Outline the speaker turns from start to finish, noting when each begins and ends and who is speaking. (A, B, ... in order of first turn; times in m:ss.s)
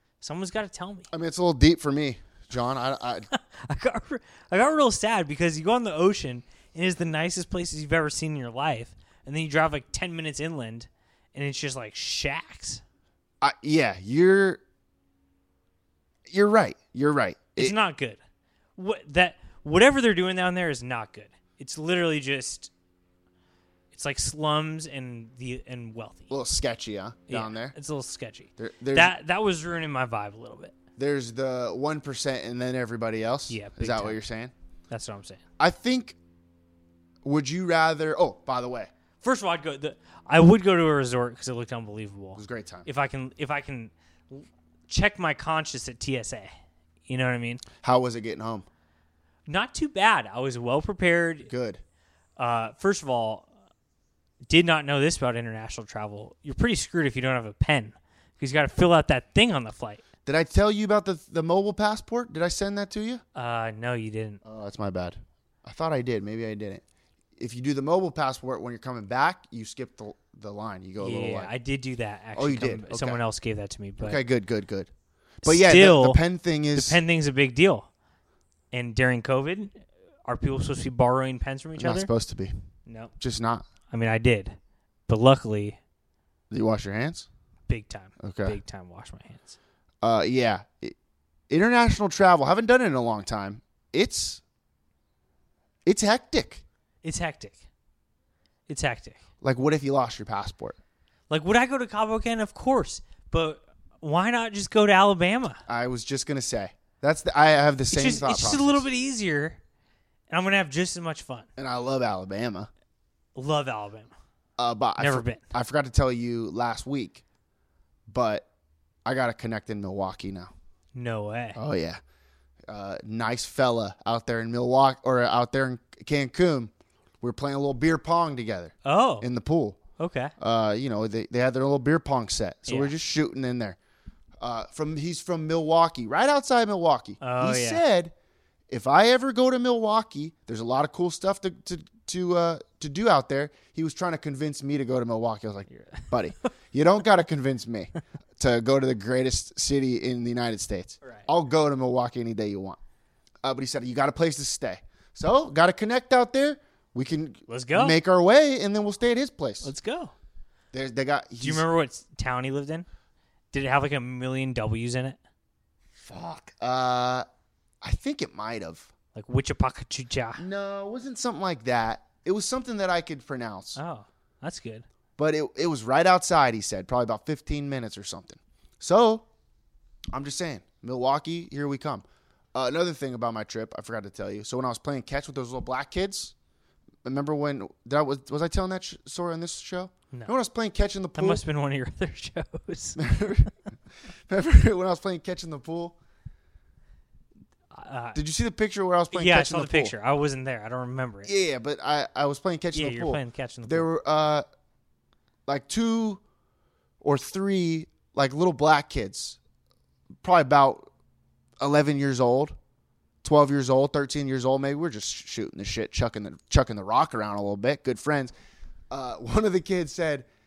0:00.2-0:01.1 A
0:01.1-0:03.3 B
0:03.3-0:12.8 A
0:13.4-0:14.6 B
0:16.3-0:17.8 B
0:17.6-0:18.2 A
0:18.8-0:22.7 A
0:23.9-0:26.3 A
0:26.3-0:27.8 B
0:27.3-0:30.7 A
0:28.6-0:29.1 B
0:31.0-0:34.5 B
0:33.5-0:34.2 A
0:34.9-0:35.4 A
0:35.6-0:36.2 B
0:37.2-0:38.9 B
0:39.2-0:46.5 A
0:42.4-0:42.9 B
0:47.1-0:47.6 A
0:47.8-0:48.7 B
0:49.5-0:51.5 A
0:51.5-0:51.8 B
0:52.4-0:53.5 A
0:54.5-1:00.0 A
1:00.2-1:03.2 B
1:03.3-1:04.4 A
1:04.4-1:06.8 B
1:07.4-1:11.5 B
1:11.0-1:14.2 A
1:12.3-1:13.2 B
1:14.0-1:14.9 B
1:15.4-1:17.0 B
1:15.4-1:16.2 A
1:16.8-1:17.9 A
1:18.7-1:22.1 A
1:21.8-1:22.6 B
1:22.9-1:23.1 A
1:23.2-1:23.7 B
1:23.9-1:24.6 A
1:25.1-1:25.8 A
1:26.5-1:27.3 B
1:27.7-1:29.6 A
1:28.2-1:28.6 B
1:30.0-1:31.0 B
1:31.5-1:34.4 B
1:35.8-1:36.6 B
1:37.0-1:37.6 A
1:38.7-1:39.2 A
1:39.4-1:40.8 B
1:41.3-1:45.6 A
1:45.7-1:48.8 B
1:47.9-1:49.6 A
1:50.3-1:51.5 A
1:51.6-1:52.7 B
1:53.4-1:54.1 A
1:54.6-1:57.2 B
1:55.0-1:55.4 A
1:58.1-1:58.5 B
1:59.0-2:00.5 B
2:00.9-2:01.6 A
2:01.6-2:02.0 B
2:02.7-2:09.8 B
2:08.8-2:09.3 A
2:10.0-2:10.3 A
2:10.4-2:13.8 B
2:12.7-2:12.9 A
2:14.4-2:18.1 B
2:17.2-2:17.8 A
2:18.7-2:32.8 B
2:25.7-2:26.2 A
2:31.0-2:31.3 A
2:33.4-2:39.7 B
2:37.5-2:38.0 A
2:39.6-2:40.1 A
2:40.7-2:41.7 B
2:41.4-2:42.9 A
2:43.5-2:45.2 A
2:46.0-2:47.3 B
2:47.8-2:48.9 B
2:49.2-2:50.4 A
2:50.4-2:53.8 B
2:53.8-2:54.8 A
2:55.2-2:59.3 B
3:00.1-3:06.3 B
3:07.0-3:11.4 B
3:11.2-3:13.0 A
3:13.0-3:13.5 B
3:14.3-3:16.0 B
3:17.7-3:18.2 A
3:18.2-3:19.9 B
3:19.1-3:21.3 A
3:21.2-3:24.4 B
3:22.7-3:23.9 A
3:25.4-3:26.2 B
3:27.0-3:29.4 B
3:30.2-3:30.9 B
3:31.6-3:32.6 B
3:33.2-3:38.3 B
3:38.9-3:40.3 B